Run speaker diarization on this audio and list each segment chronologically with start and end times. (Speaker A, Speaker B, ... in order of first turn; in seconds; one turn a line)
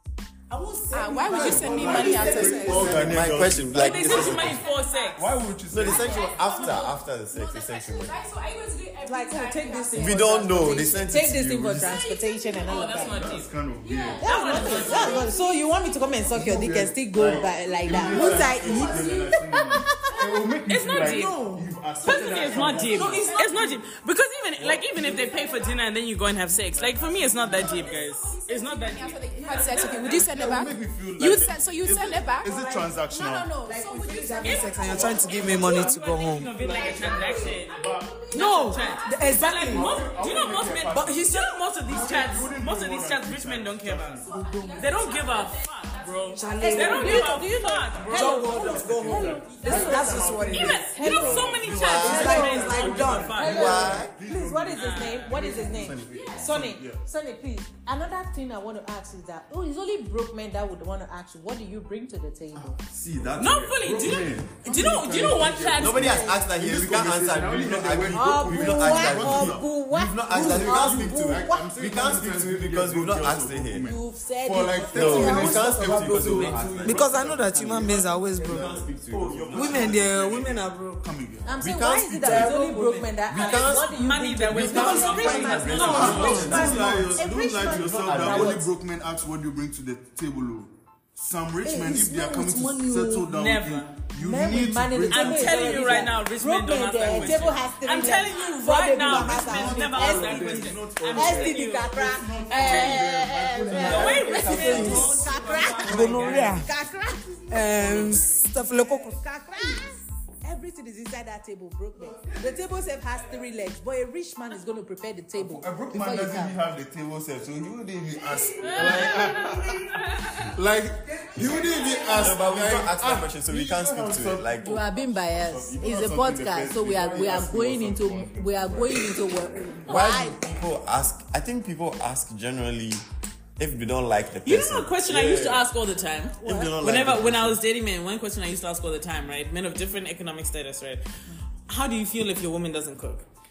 Speaker A: 0.5-3.4
Speaker B: 0.9-3.0
Speaker C: 1.1-2.8
Speaker D: 1.2-6.7
Speaker E: 2.1-4.6
Speaker F: 3.7-5.2
Speaker B: 3.8-10.8
Speaker E: 5.7-8.2
Speaker C: 9.0-13.2
Speaker E: 9.9-12.0
Speaker B: 11.8-16.6
Speaker F: 12.5-13.5
Speaker D: 13.0-15.2
Speaker C: 14.2-20.1
Speaker F: 14.2-15.2
Speaker A: 14.5-15.2
Speaker D: 16.3-23.4
Speaker B: 17.3-21.0
Speaker F: 20.7-21.4
Speaker A: 20.9-21.7
Speaker B: 22.0-23.8
Speaker F: 22.0-30.2
Speaker A: 22.9-23.6
Speaker D: 24.6-25.4
Speaker B: 24.6-25.9
Speaker B: 26.5-35.6
Speaker D: 26.7-28.1
Speaker D: 29.6-33.6
Speaker A: 33.6-36.5
Speaker F: 34.4-37.8
Speaker D: 34.7-38.4
Speaker B: 36.6-40.6
Speaker F: 38.3-44.2
Speaker A: 38.3-40.0
Speaker D: 39.6-44.3
Speaker A: 40.9-42.4
Speaker B: 44.1-50.9
Speaker A: 44.3-45.1
Speaker F: 44.7-48.7
Speaker A: 46.3-47.4
Speaker C: 46.6-52.7
Speaker A: 48.1-50.9
Speaker D: 48.1-57.0
Speaker F: 50.5-54.0
Speaker E: 51.6-52.5
Speaker A: 51.9-53.5
Speaker C: 53.3-62.7
Speaker E: 53.4-54.1
Speaker F: 54.7-55.4
Speaker E: 55.5-56.1
Speaker B: 56.0-56.6
Speaker D: 62.5-81.6
Speaker F: 63.4-66.3
Speaker E: 65.7-73.9
Speaker C: 68.1-71.7
Speaker C: 73.8-75.6
Speaker A: 74.9-78.8
Speaker E: 74.9-80.0
Speaker A: 79.5-81.0
Speaker C: 81.4-88.7
Speaker E: 81.6-82.6
Speaker A: 82.2-83.1
Speaker E: 83.2-84.0
Speaker F: 83.7-86.7
Speaker E: 84.5-88.6
Speaker D: 84.6-96.1
Speaker A: 84.6-87.2
Speaker A: 88.3-88.6
Speaker A: 91.6-93.3
Speaker F: 93.3-94.0
Speaker C: 94.2-108.0
Speaker F: 95.1-102.0
Speaker D: 99.0-108.5
Speaker A: 99.1-99.9
Speaker F: 102.5-103.1
Speaker F: 103.7-106.6
Speaker E: 103.7-105.3
Speaker A: 103.9-106.7
Speaker A: 107.5-109.2
Speaker C: 108.8-116.5
Speaker D: 115.4-129.5
Speaker B: 118.2-120.4
Speaker F: 118.6-120.2
Speaker A: 121.0-122.8
Speaker B: 121.6-122.2
Speaker E: 122.0-124.8
Speaker C: 124.6-130.4
Speaker E: 129.8-133.0
Speaker E: 133.6-135.7
Speaker F: 134.4-141.0
Speaker E: 136.4-137.6
Speaker F: 141.7-143.2